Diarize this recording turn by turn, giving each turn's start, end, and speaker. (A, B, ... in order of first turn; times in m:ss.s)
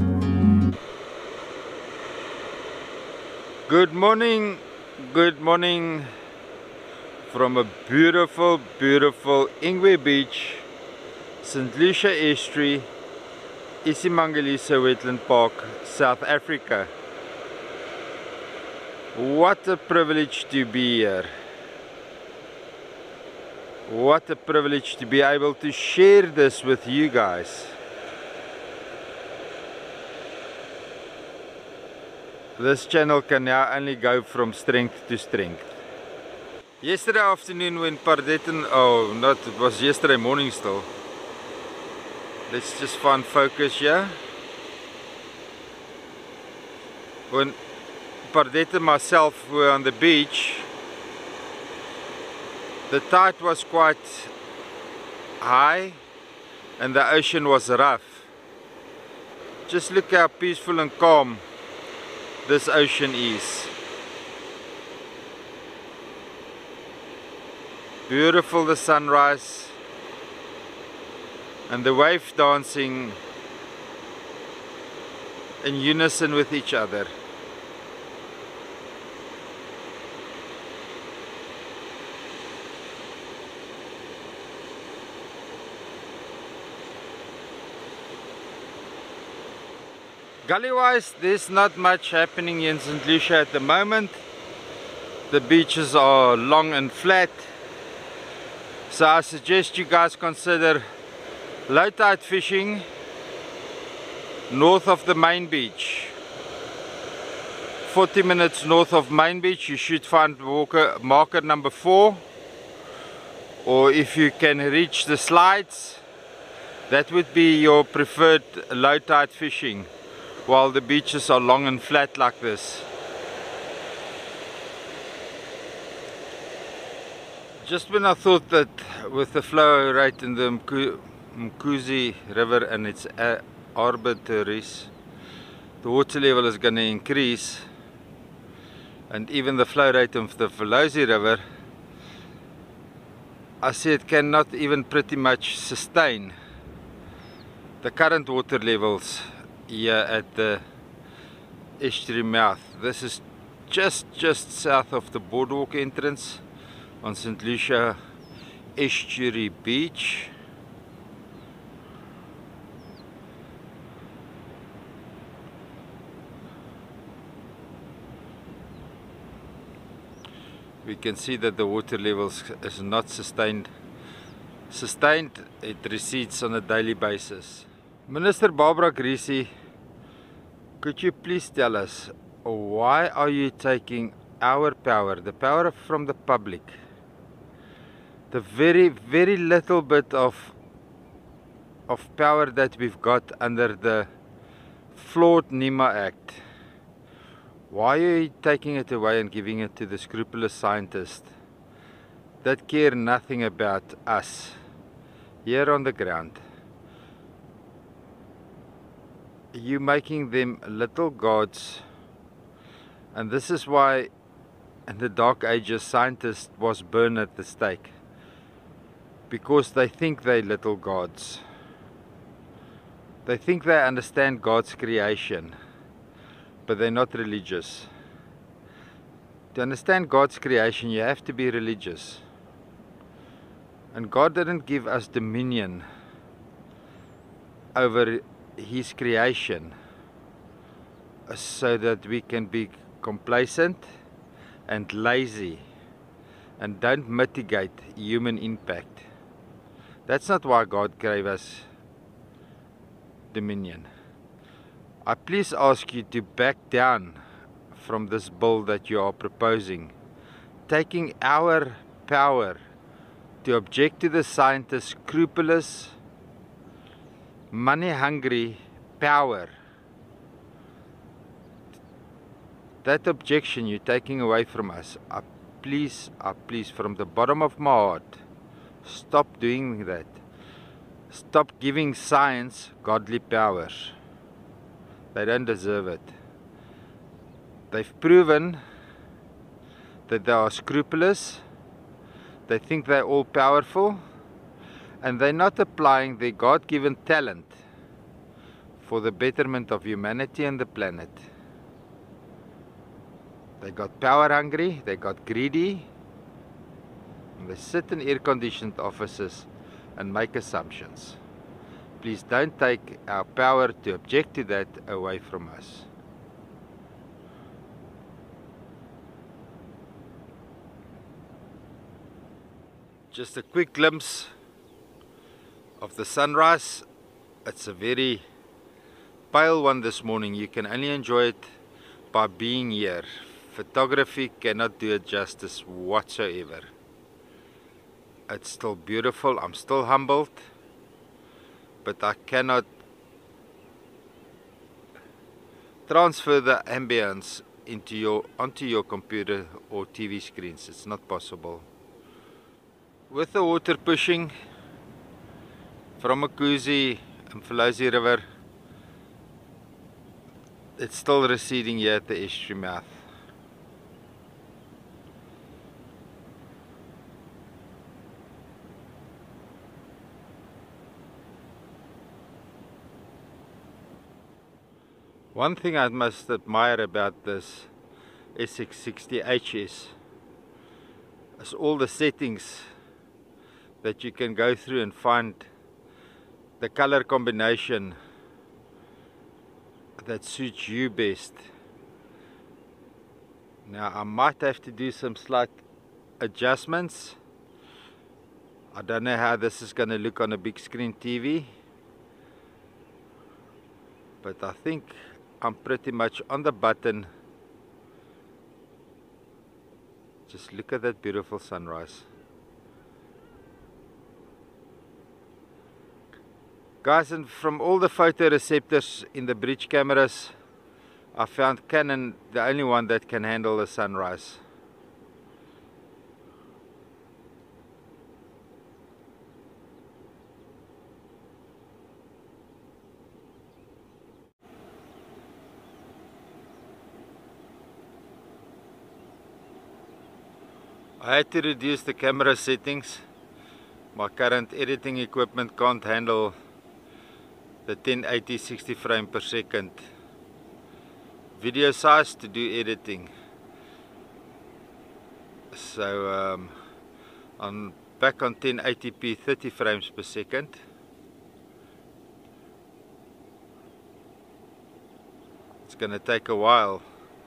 0:03.7-0:06.1 A
0:07.2-0:10.7 A
0:11.4-0:12.9 A
0:13.8-0:16.9 A
0:19.1-0:21.3 A
0:23.9-0:27.8 A
0:32.6-0:35.7 A
0:36.8-0:40.9 A
0:42.5-0:44.2 A
0:47.3-0:47.6 A
0:48.2-0:50.7 A
0:52.9-0:54.3 A
0:55.4-0:56.0 A
0:56.8-0:58.3 A
0:59.7-1:01.4 A
1:02.4-1:03.7 A
1:08.1-1:09.8 A
1:11.7-1:13.2 A
1:15.6-1:17.1 A
1:30.4-1:34.2 A
1:35.3-1:37.5 A
1:38.9-1:40.8 A
1:41.7-1:42.8 A
1:44.5-1:46.1 A
1:47.8-1:52.2 A
1:53.6-1:56.0 A
1:56.9-1:59.9 A
2:00.5-2:02.9 A
2:07.6-2:14.9 A
2:15.8-2:17.7 A
2:19.1-2:21.4 A
2:23.6-2:26.3 A
2:27.8-2:30.6 A
2:31.8-2:36.4 A
2:37.0-2:38.0 A
2:38.8-2:40.3 A
2:50.8-2:53.7 A
2:54.7-2:59.5 A
3:00.8-3:06.8 A
3:08.3-3:10.5 A
3:11.9-3:14.1 A
3:14.9-3:16.4 A
3:17.7-3:21.3 A
3:22.4-3:24.6 A
3:25.4-3:26.4 A
3:29.5-3:31.8 A
3:33.1-3:34.1 A
3:34.9-3:37.9 A
3:39.3-3:41.4 A
3:43.2-3:45.6 A
3:46.6-3:47.9 A
3:49.5-3:52.2 A
3:53.9-3:55.9 A
3:57.7-3:59.8 A
4:01.3-4:03.9 A
4:04.7-4:05.6 A
4:06.6-4:09.0 A
4:10.1-4:11.6 A
4:13.3-4:13.9 A
4:15.0-4:17.2 A
4:17.7-4:19.9 A
4:20.7-4:22.6 A
4:23.4-4:26.0 A
4:27.5-4:29.5 A
4:32.8-4:38.2 A
4:38.8-4:40.2 A
4:41.1-4:43.9 A
4:45.1-4:46.1 A
4:47.7-4:48.6 A
4:50.1-4:51.4 A
4:52.5-4:54.0 A
4:55.0-4:57.6 A
4:58.8-5:01.2 A
5:03.6-5:05.9 A
5:07.4-5:11.2 A
5:12.0-5:15.9 A
5:23.1-5:24.3 A
5:25.8-5:26.8 A
5:27.4-5:28.2 A
5:29.3-5:31.5 A
5:32.1-5:36.7 A
5:38.3-5:40.4 A
5:41.8-5:42.7 A
5:45.9-5:51.7 A
5:53.1-5:54.3 A
5:56.0-5:58.2 A
6:00.8-6:03.0 A
6:15.3-6:17.7 A
6:18.3-6:19.9 A
6:21.4-6:22.7 A
6:23.8-6:25.5 A
6:26.6-6:28.0 A
6:30.0-6:31.4 A
6:33.6-6:35.6 A
6:36.2-6:37.2 A
6:38.7-6:41.5 A
6:44.2-6:47.1 A
6:50.3-6:52.1 A
6:56.8-7:00.3 A
7:01.1-7:04.4 A
7:21.0-7:23.0 A
7:23.9-7:26.3 A
7:27.6-7:29.8 A
7:31.4-7:33.1 A
7:35.5-7:36.5 A
7:37.4-7:40.6 A
7:45.6-7:46.8 A